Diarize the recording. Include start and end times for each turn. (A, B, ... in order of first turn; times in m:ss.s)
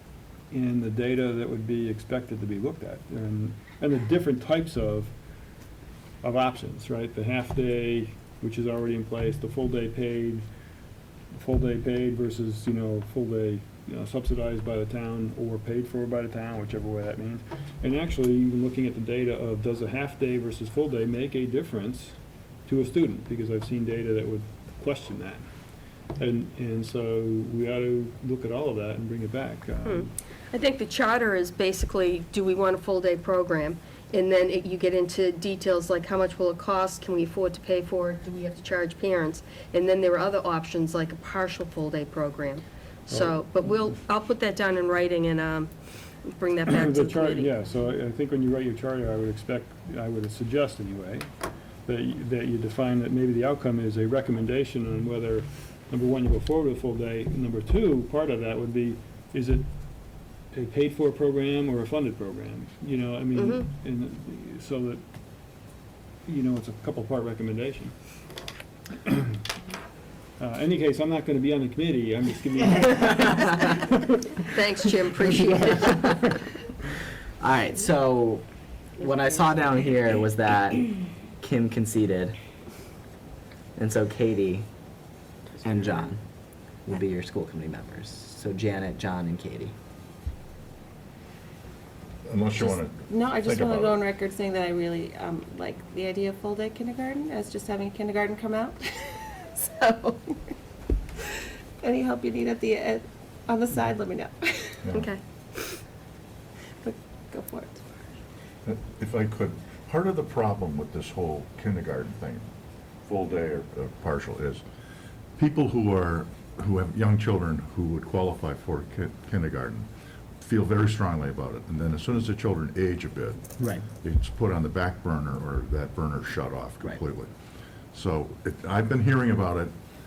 0:00.5-0:05.2 A
0:06.2-0:10.5 A
0:11.3-0:25.5 A
0:26.2-0:30.1 A
0:29.8-0:47.6 B
0:43.1-0:43.4 A
0:46.7-0:51.3 A
0:51.8-1:05.0 A
1:03.4-1:03.7 B
1:06.3-1:07.9 A
1:10.4-1:13.7 A
1:14.5-1:16.1 B
1:17.4-1:18.4 C
1:19.1-1:20.8 C
1:21.4-1:22.3 C
1:23.8-1:24.6 C
1:25.7-1:26.2 C
1:26.9-1:29.7 C
1:32.2-1:34.0 D
1:32.6-1:40.4 E
1:41.8-1:45.0 E
1:44.8-1:45.1 D
1:44.9-1:45.8 B
1:46.8-1:47.8 E
1:48.7-1:52.4 D
1:53.0-1:54.6 D
1:55.4-1:59.9 D
2:00.4-2:07.3 D
2:07.9-2:09.7 D